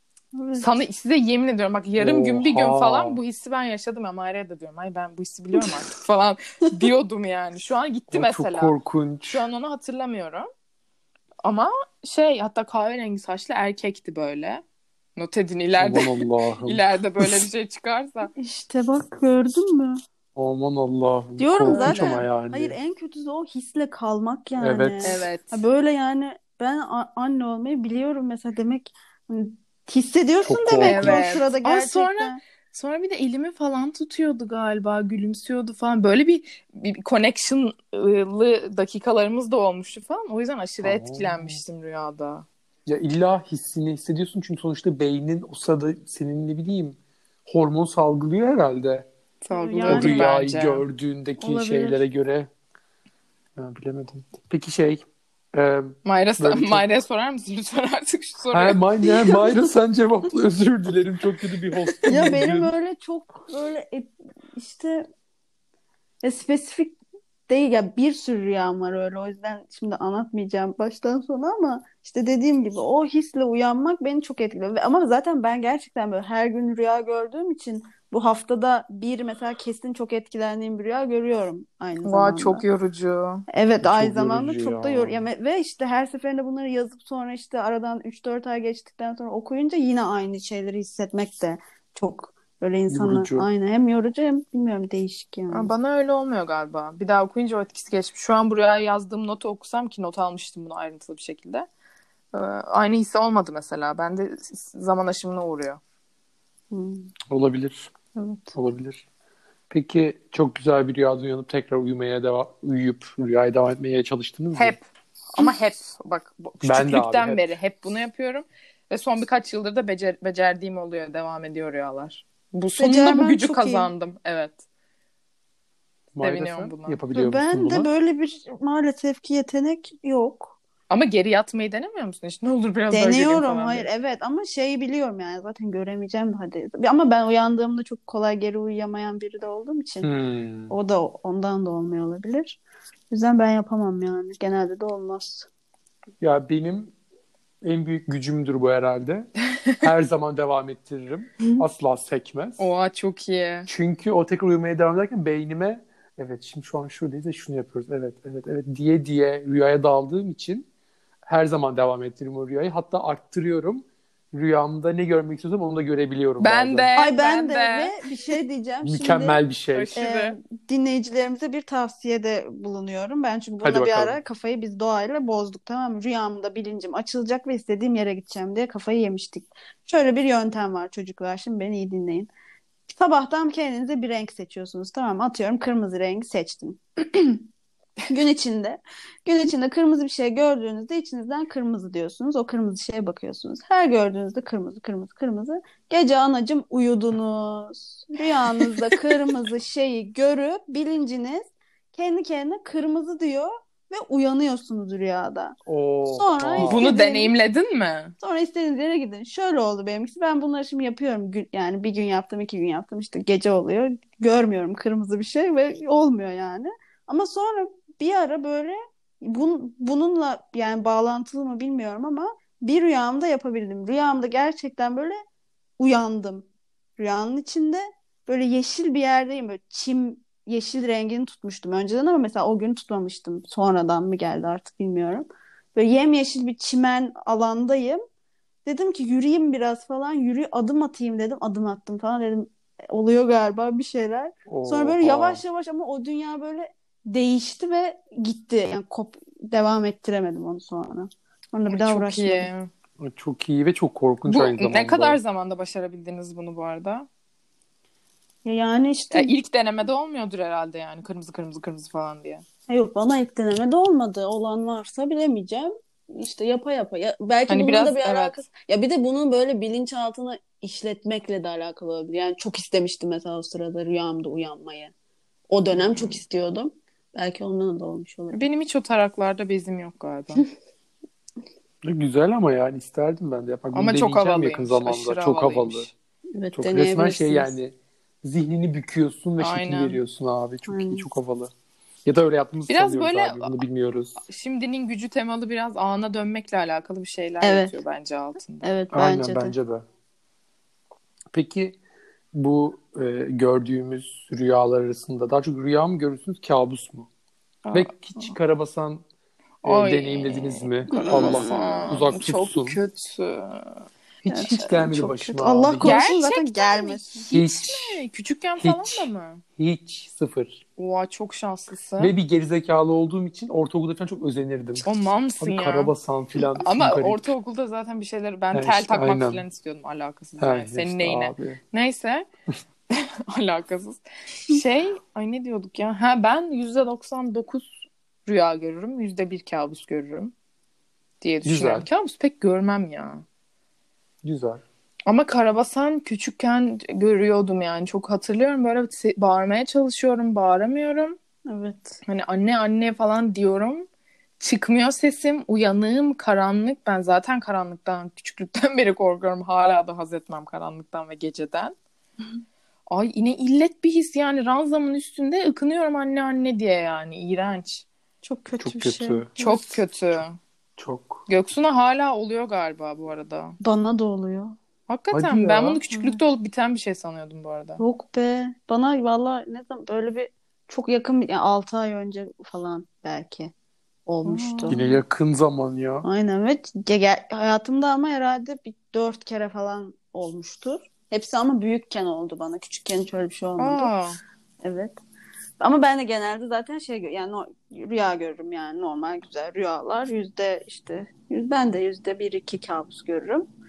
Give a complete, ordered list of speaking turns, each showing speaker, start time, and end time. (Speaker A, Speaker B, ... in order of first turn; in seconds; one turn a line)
Speaker A: 0.3-0.7
Speaker B: 0.6-8.8
Speaker C: 2.0-3.2
Speaker C: 8.1-9.4
Speaker B: 9.3-10.5
Speaker B: 11.4-14.6
Speaker B: 15.2-18.3
Speaker C: 15.8-17.5
Speaker A: 18.4-20.0
Speaker C: 20.4-22.8
Speaker A: 21.4-32.4
Speaker B: 21.7-22.2
Speaker C: 24.6-25.2
Speaker B: 25.0-25.6
Speaker C: 30.4-31.2
Speaker B: 30.8-42.5
Speaker C: 40.8-41.6
Speaker C: 42.9-49.1
Speaker B: 49.4-50.8
Speaker A: 49.5-50.3
Speaker C: 49.9-52.5
Speaker A: 51.4-52.0
Speaker C: 53.6-56.8
Speaker B: 56.0-59.5
Speaker C: 58.5-62.7
Speaker A: 62.1-65.0
Speaker A: 66.2-82.6
Speaker B: 82.0-83.4
Speaker A: 83.5-95.7
Speaker C: 83.8-85.2
Speaker C: 92.9-93.5
Speaker B: 95.5-101.7
Speaker B: 102.3-105.8
Speaker A: 106.7-107.1
Speaker C: 107.3-107.9
Speaker A: 108.2-108.5
Speaker C: 108.5-109.0
Speaker C: 109.7-114.8
Speaker B: 114.5-124.6
Speaker C: 116.6-117.4
Speaker A: 122.8-123.9
Speaker C: 126.1-127.9
Speaker B: 126.2-127.0
Speaker A: 127.1-130.6
Speaker B: 130.9-133.9
Speaker A: 132.9-140.1
Speaker C: 140.0-140.8
Speaker A: 140.7-142.6
Speaker A: 143.1-145.5
Speaker C: 146.2-146.9
Speaker C: 147.6-152.7
Speaker B: 152.6-153.7
Speaker C: 153.7-160.7
Speaker C: 161.3-166.9
Speaker B: 166.4-167.9
Speaker A: 166.9-169.4
Speaker C: 168.8-169.9
Speaker B: 169.7-170.4
Speaker A: 170.0-182.3
Speaker C: 173.6-174.2
Speaker A: 182.9-187.4
Speaker A: 188.1-207.3
Speaker C: 205.7-206.8
Speaker B: 206.6-208.1
Speaker A: 208.2-225.2
Speaker A: 225.8-226.5
Speaker A: 227.0-238.0
Speaker A: 238.7-252.5
Speaker C: 244.5-245.4
Speaker B: 251.7-252.7
Speaker C: 253.0-255.2
Speaker B: 254.3-257.1
Speaker A: 258.4-259.3
Speaker B: 259.1-262.4
Speaker A: 262.7-274.9
Speaker B: 267.5-268.4
Speaker A: 275.5-278.4
Speaker B: 275.8-276.2
Speaker B: 278.3-280.4
Speaker C: 281.8-285.9
Speaker B: 283.7-285.9
Speaker A: 286.3-287.5
Speaker C: 286.5-291.5
Speaker B: 289.4-290.0
Speaker A: 290.7-291.0
Speaker C: 292.1-294.2
Speaker B: 292.7-293.6
Speaker B: 294.3-298.7
Speaker A: 297.4-297.7
Speaker A: 298.6-299.6
Speaker C: 298.9-299.9
Speaker C: 301.3-301.8
Speaker C: 302.3-307.1
Speaker B: 307.6-308.4
Speaker C: 307.7-309.0
Speaker B: 309.6-313.9
Speaker C: 309.6-312.8
Speaker A: 310.9-311.8
Speaker C: 314.2-315.9
Speaker A: 314.3-317.3
Speaker B: 315.8-319.4
Speaker C: 317.3-318.0
Speaker C: 318.6-320.6
Speaker B: 320.8-322.1
Speaker C: 322.0-324.9
Speaker B: 324.9-325.9
Speaker C: 325.4-327.3
Speaker B: 326.6-332.3
Speaker C: 328.5-329.4
Speaker C: 330.4-331.6
Speaker B: 332.9-340.3
Speaker B: 341.2-343.2
Speaker C: 341.4-341.9
Speaker C: 344.2-344.6
Speaker B: 345.1-351.2
Speaker A: 351.5-352.0
Speaker B: 352.1-353.9
Speaker B: 354.4-361.8
Speaker B: 362.9-367.9
Speaker A: 368.2-369.7
Speaker C: 368.6-369.3
Speaker B: 369.4-370.4
Speaker C: 370.8-371.2
Speaker B: 371.3-373.6
Speaker A: 373.6-374.6
Speaker B: 374.9-377.8
Speaker C: 375.1-375.8
Speaker A: 375.9-376.2
Speaker A: 377.8-383.5
Speaker A: 384.1-384.9
Speaker B: 384.2-385.0
Speaker C: 384.7-386.1
Speaker A: 386.0-393.9
Speaker B: 393.6-394.2
Speaker A: 394.6-395.0
Speaker A: 395.6-403.5